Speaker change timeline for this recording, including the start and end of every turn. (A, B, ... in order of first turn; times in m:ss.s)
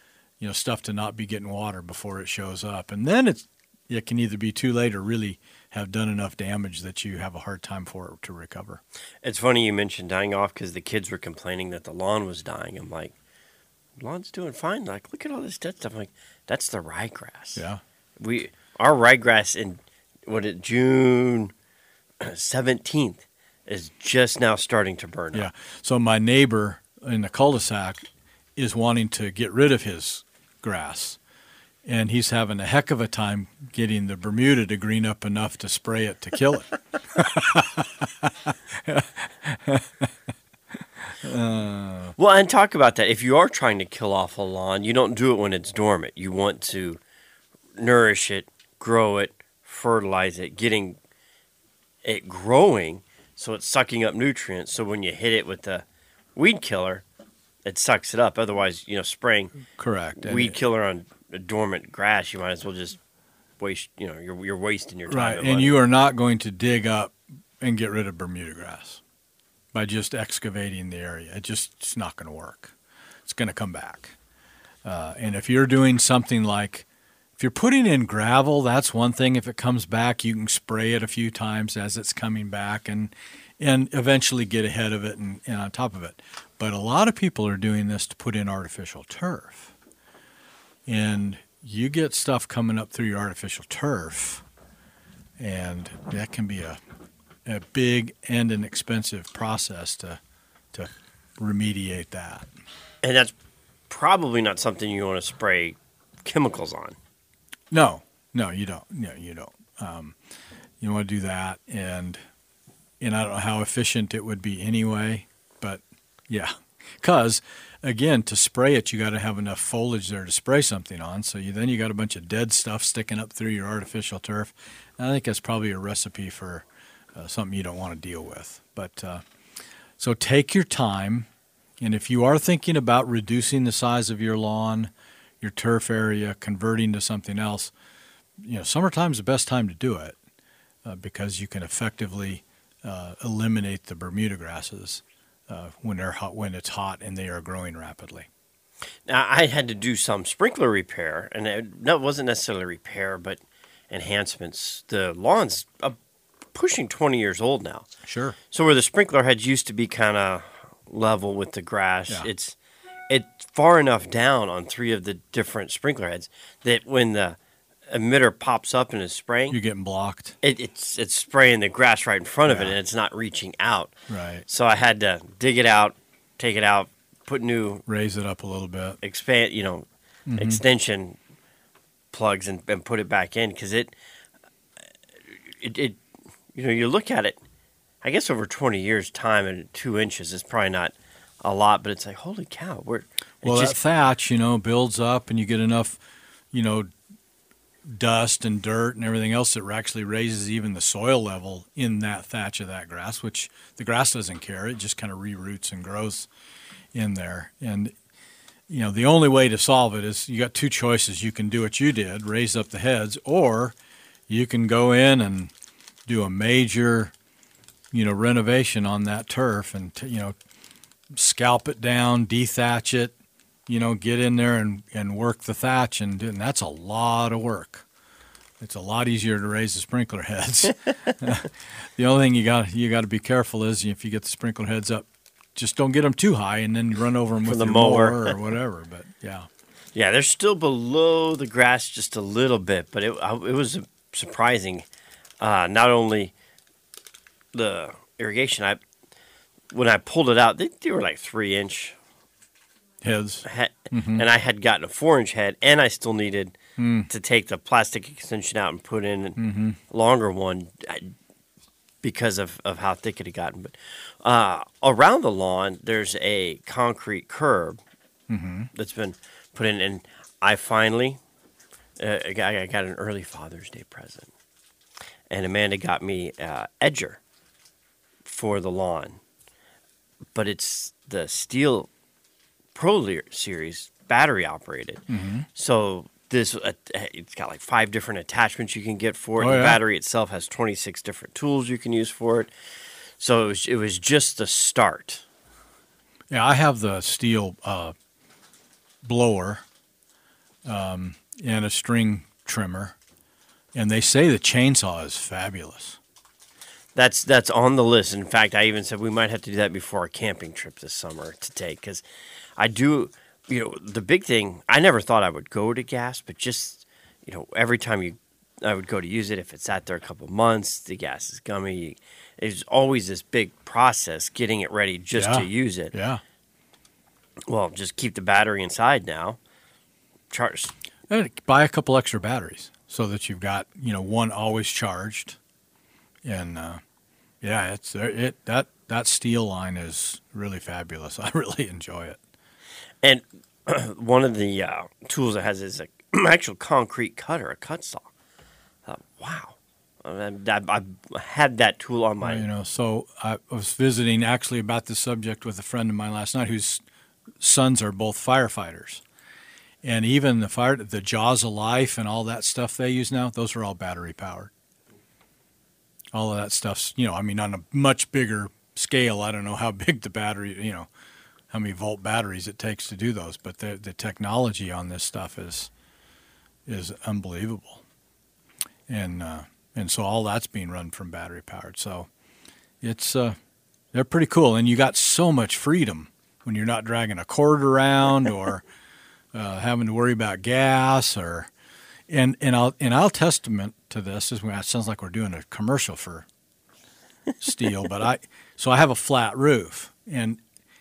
0:00.4-0:08.8 A
0:09.2-0:13.1 B
0:14.0-0:17.6 B
0:17.6-0:17.8 A
0:18.2-0:21.5 B
0:22.2-0:25.5 B
0:25.3-0:31.2 A
0:31.8-0:40.1 A
0:41.2-0:42.2 A
0:42.2-0:47.0 B
0:47.8-0:51.0 B
0:52.0-0:55.8 B
0:56.4-0:57.0 B
0:57.6-0:59.5 B
0:59.8-1:00.6 A
1:00.2-1:03.0 B
1:03.6-1:05.8 B
1:05.1-1:09.0 A
1:09.7-1:12.7 A
1:13.3-1:14.2 A
1:14.8-1:29.7 A
1:30.9-1:34.4 A
1:35.4-1:36.8 A
1:37.4-1:40.2 A
1:40.7-1:42.5 A
1:43.0-1:43.3 B
1:43.9-1:47.0 B
1:47.7-1:50.2 A
1:50.8-1:52.2 A
1:53.0-2:09.2 A
2:10.0-2:11.3 A
2:11.8-2:17.7 A
2:18.4-2:20.2 A
2:20.8-2:28.3 A
2:29.1-2:36.0 B
2:36.5-2:37.9 B
2:38.1-2:38.4 A
2:38.5-2:42.6 B
2:43.1-2:47.4 B
2:47.9-2:49.6 B
2:49.5-2:50.4 A
2:50.4-2:54.0 B
2:52.5-2:52.8 A
2:54.1-2:54.4 A
2:54.5-2:57.8 B
2:57.9-2:59.0 A
2:59.0-2:59.9 B
3:00.3-3:00.6 A
3:00.4-3:01.2 B
3:02.1-3:03.9 B
3:05.6-3:06.0 B
3:06.5-3:07.4 B
3:08.0-3:13.8 B
3:13.4-3:16.0 A
3:16.5-3:16.9 A
3:17.9-3:26.3 A
3:26.9-3:28.0 A
3:28.7-3:33.8 A
3:34.3-3:35.5 A
3:36.1-3:37.1 A
3:37.9-3:40.4 A
3:41.1-3:43.2 A
3:43.7-3:47.9 A
3:48.6-3:59.5 A
3:57.4-3:58.4 B
4:00.0-4:04.9 B
4:05.4-4:06.3 B
4:07.5-4:08.8 B
4:09.7-4:12.0 B
4:13.0-4:14.3 A
4:13.4-4:21.1 B
4:16.8-4:17.1 A
4:19.4-4:19.8 A
4:22.0-4:27.8 B
4:28.3-4:28.7 A
4:28.7-4:31.2 B
4:32.0-4:34.3 B
4:35.3-4:37.2 B
4:38.2-4:39.2 B
4:40.4-4:41.9 B
4:42.8-4:45.0 B
4:45.1-4:45.5 A
4:45.6-4:52.5 B
4:49.4-4:49.8 A
4:53.2-4:55.2 B
4:56.3-4:58.0 A
4:59.0-4:59.6 A
5:00.6-5:03.0 A
5:03.7-5:06.0 A
5:07.0-5:12.0 B
5:12.6-5:25.9 B
5:25.2-5:26.2 A
5:27.5-5:29.4 B
5:30.3-5:30.7 B
5:31.1-5:35.4 A
5:36.2-5:36.8 A
5:37.4-5:42.2 A
5:43.0-5:48.1 B
5:48.9-5:52.5 B
5:52.2-5:56.8 A
5:57.4-5:59.0 A
5:59.8-6:04.5 A
6:06.1-6:10.9 A
6:11.5-6:15.7 A
6:16.7-6:17.8 A
6:18.9-6:22.1 A
6:22.8-6:23.4 A
6:23.9-6:28.6 A
6:29.3-6:31.5 A
6:32.1-6:36.3 A
6:37.4-6:40.4 A